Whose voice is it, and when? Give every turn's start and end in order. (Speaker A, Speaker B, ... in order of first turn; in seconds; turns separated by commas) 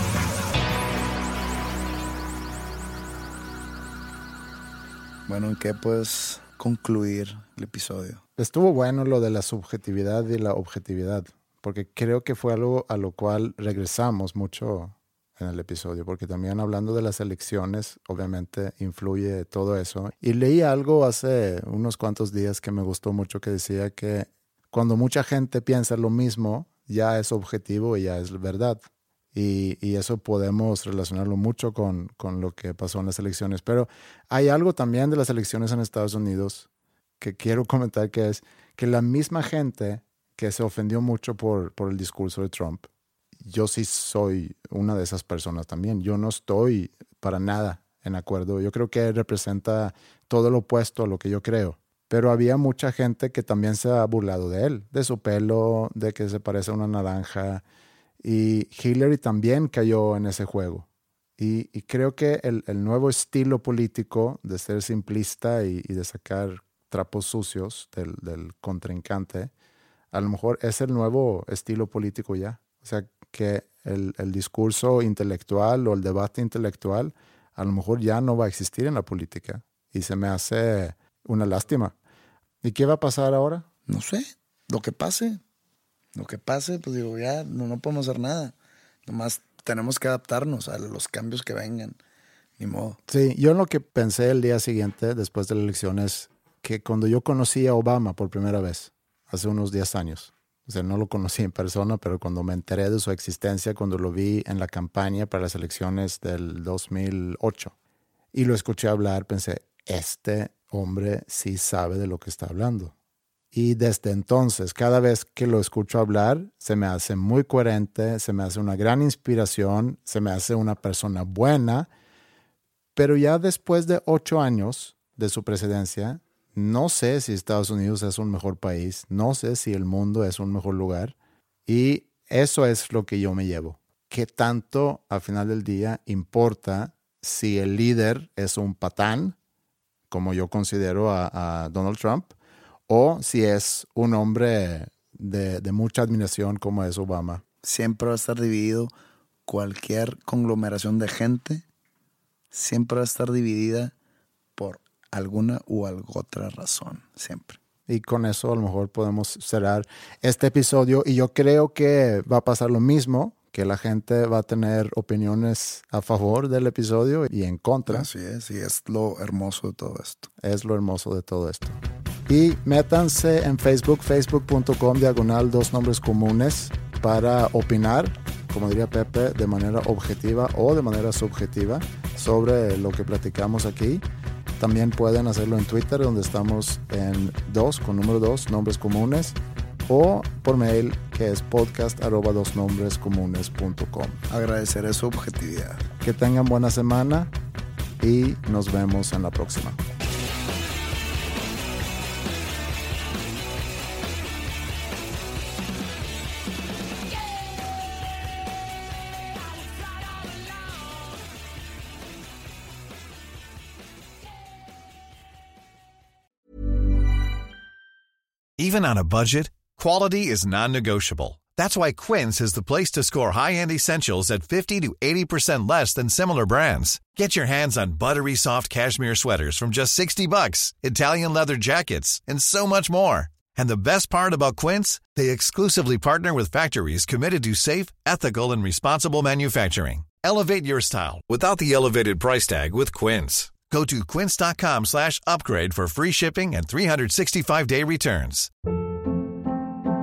Speaker A: 5.3-8.2, Speaker B: 8.4-36.7, Speaker B: 37.2-42.9, Speaker B: 43.4-57.6, Speaker B: 58.2-60.9, Speaker B: 61.4-69.5, Speaker B: 70.1-82.0, Speaker B: 82.6-83.7, Speaker A: 83.9-85.4, Speaker A: 86.2-88.5, Speaker A: 89.1-92.0, Speaker A: 92.6-93.0, Speaker B: 93.1-107.7, Speaker B: 108.3-112.9, Speaker B: 113.5-121.9, Speaker B: 123.0-131.2, Speaker B: 131.7-139.4, Speaker B: 140.1-142.3, Speaker B: 142.9-147.4, Speaker A: 147.6-148.9, Speaker A: 149.5-151.6, Speaker A: 152.5-153.9, Speaker A: 154.6-157.6, Speaker B: 157.9-168.1, Speaker A: 167.9-170.3, Speaker B: 170.4-184.0, Speaker B: 184.6-194.2, Speaker A: 194.3-195.9, Speaker B: 196.0-197.3, Speaker B: 198.0-199.8, Speaker C: 218.6-248.5